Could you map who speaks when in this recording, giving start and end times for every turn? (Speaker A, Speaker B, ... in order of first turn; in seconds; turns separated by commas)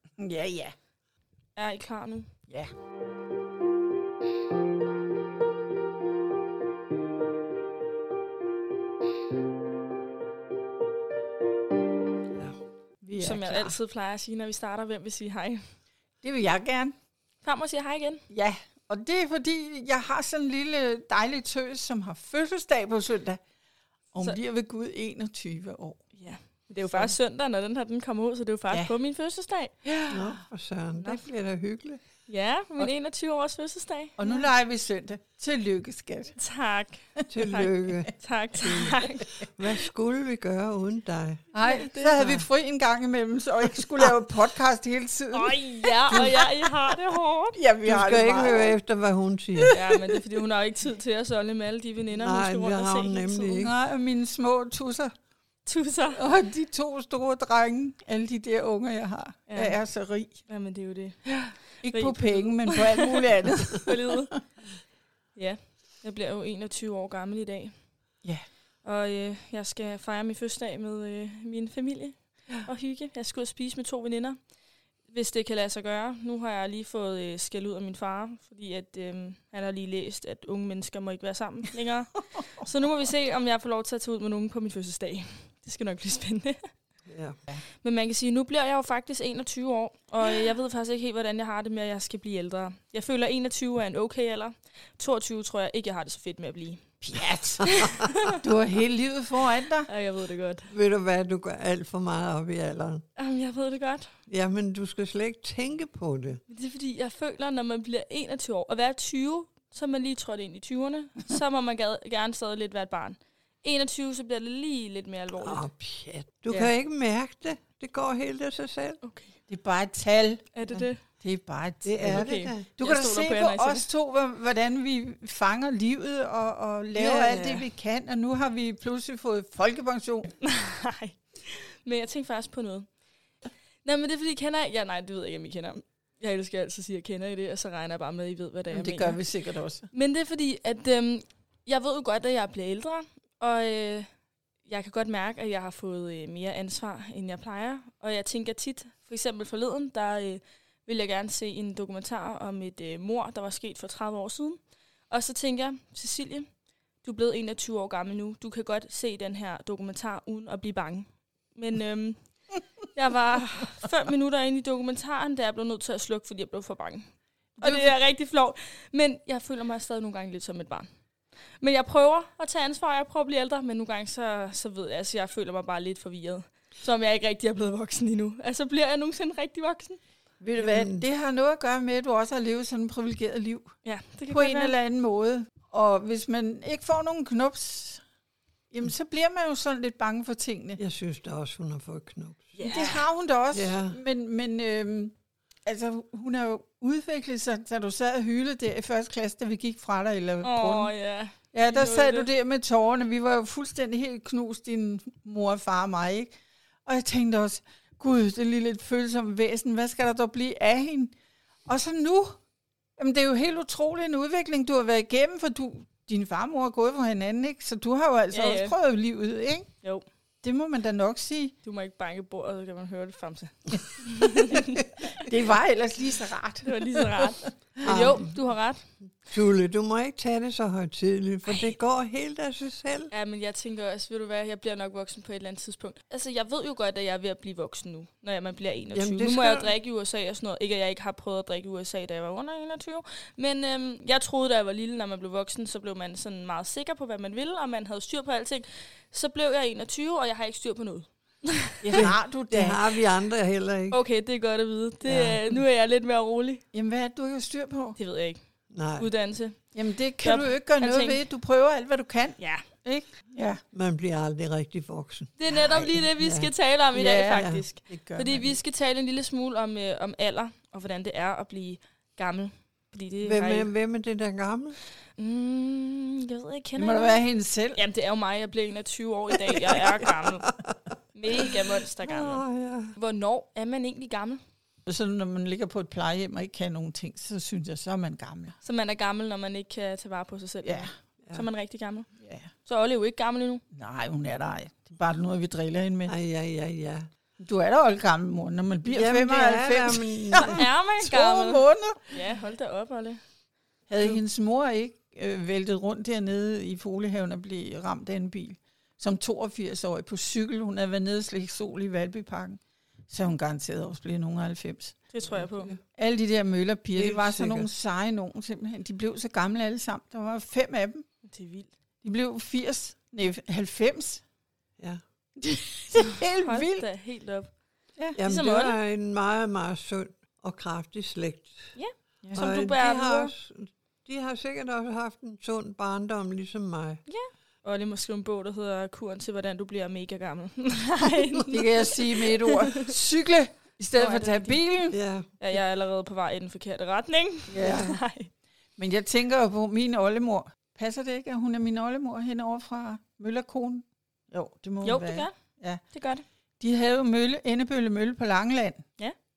Speaker A: 0.2-0.7, Speaker B: 1.6-2.3, Speaker A: 13.0-13.8, Speaker B: 13.2-15.6, Speaker A: 16.2-16.9, Speaker B: 17.4-18.2, Speaker A: 18.3-23.4, Speaker A: 24.1-26.0, Speaker B: 26.2-29.8, Speaker A: 26.8-27.1, Speaker A: 29.8-30.4, Speaker C: 30.1-32.0, Speaker B: 31.0-31.2, Speaker B: 32.3-34.5, Speaker A: 34.2-36.4, Speaker B: 36.4-39.2, Speaker A: 37.2-38.1, Speaker C: 37.3-41.4, Speaker B: 41.5-42.4, Speaker A: 41.5-47.0, Speaker B: 45.3-47.6, Speaker A: 47.5-48.8, Speaker C: 47.8-49.8, Speaker A: 49.6-50.0, Speaker B: 49.7-53.6, Speaker C: 52.1-53.7, Speaker A: 53.6-55.1, Speaker B: 55.6-56.2, Speaker A: 56.1-60.4, Speaker B: 59.5-59.8, Speaker B: 60.5-64.4, Speaker A: 61.8-64.3, Speaker B: 65.3-67.7, Speaker B: 68.8-74.4, Speaker B: 75.1-86.6, Speaker C: 87.1-87.4, Speaker B: 87.8-97.0, Speaker A: 97.0-97.7, Speaker B: 97.6-98.4, Speaker A: 98.3-99.9, Speaker B: 99.8-100.7, Speaker C: 100.7-103.0, Speaker B: 103.2-104.1, Speaker C: 104.3-106.4, Speaker B: 106.5-115.7, Speaker C: 115.4-119.0, Speaker B: 119.0-119.4, Speaker A: 119.5-130.3, Speaker B: 120.5-121.0, Speaker C: 121.8-122.7, Speaker B: 122.1-123.9, Speaker B: 127.0-127.7, Speaker C: 127.0-127.4, Speaker B: 130.4-132.9, Speaker B: 133.8-139.2, Speaker A: 138.7-139.9, Speaker B: 139.9-144.1, Speaker B: 144.7-156.5, Speaker B: 157.0-167.1, Speaker B: 167.6-170.8, Speaker B: 171.6-180.0, Speaker A: 180.4-183.7, Speaker C: 180.6-181.0, Speaker B: 183.8-184.7, Speaker A: 184.3-188.0, Speaker A: 188.7-190.8, Speaker C: 190.8-192.6, Speaker B: 192.6-193.0, Speaker A: 192.7-195.1, Speaker C: 193.5-194.0, Speaker A: 195.6-200.9, Speaker B: 200.4-202.3, Speaker A: 201.5-206.3, Speaker A: 206.8-211.1, Speaker A: 211.7-212.4, Speaker A: 213.0-219.7, Speaker B: 218.3-218.7, Speaker A: 220.4-221.5, Speaker B: 221.6-225.2, Speaker A: 225.2-228.2, Speaker B: 226.6-228.8, Speaker C: 227.8-228.3, Speaker C: 229.2-233.1, Speaker B: 231.5-231.7, Speaker B: 233.1-252.1, Speaker C: 238.9-239.7, Speaker A: 251.8-252.9, Speaker C: 251.9-254.0, Speaker B: 253.9-256.6, Speaker A: 255.0-255.6, Speaker A: 256.7-258.0, Speaker B: 257.9-258.4, Speaker C: 258.7-259.1, Speaker B: 258.9-261.2, Speaker A: 259.7-263.6, Speaker C: 263.7-265.3, Speaker B: 265.4-273.7, Speaker C: 266.1-266.5, Speaker A: 266.9-268.6, Speaker C: 267.3-267.6, Speaker C: 273.2-274.8, Speaker B: 275.2-280.5, Speaker A: 276.8-277.8, Speaker C: 279.5-282.9, Speaker B: 281.1-282.4, Speaker B: 282.9-284.4, Speaker A: 284.9-288.6, Speaker B: 288.6-292.1, Speaker A: 290.6-290.9, Speaker A: 292.2-292.5, Speaker B: 292.6-293.6, Speaker A: 293.7-296.1, Speaker C: 296.1-297.1, Speaker A: 297.4-302.2, Speaker C: 298.9-300.6, Speaker B: 300.4-303.2, Speaker A: 303.9-315.0, Speaker B: 315.1-315.7, Speaker C: 315.3-315.8, Speaker A: 315.9-321.0, Speaker C: 316.9-317.7, Speaker B: 321.2-321.7, Speaker A: 322.0-324.2, Speaker A: 325.4-326.9, Speaker B: 326.4-327.5, Speaker B: 328.1-328.8, Speaker C: 328.2-331.7, Speaker B: 331.8-333.3, Speaker C: 332.3-337.0, Speaker B: 337.1-342.9, Speaker A: 341.5-344.9, Speaker B: 344.0-344.7, Speaker C: 344.9-345.3, Speaker B: 345.4-348.3, Speaker A: 347.5-348.0, Speaker C: 347.6-348.0, Speaker A: 348.8-355.8, Speaker B: 354.8-355.3, Speaker B: 355.9-356.2, Speaker A: 356.6-358.8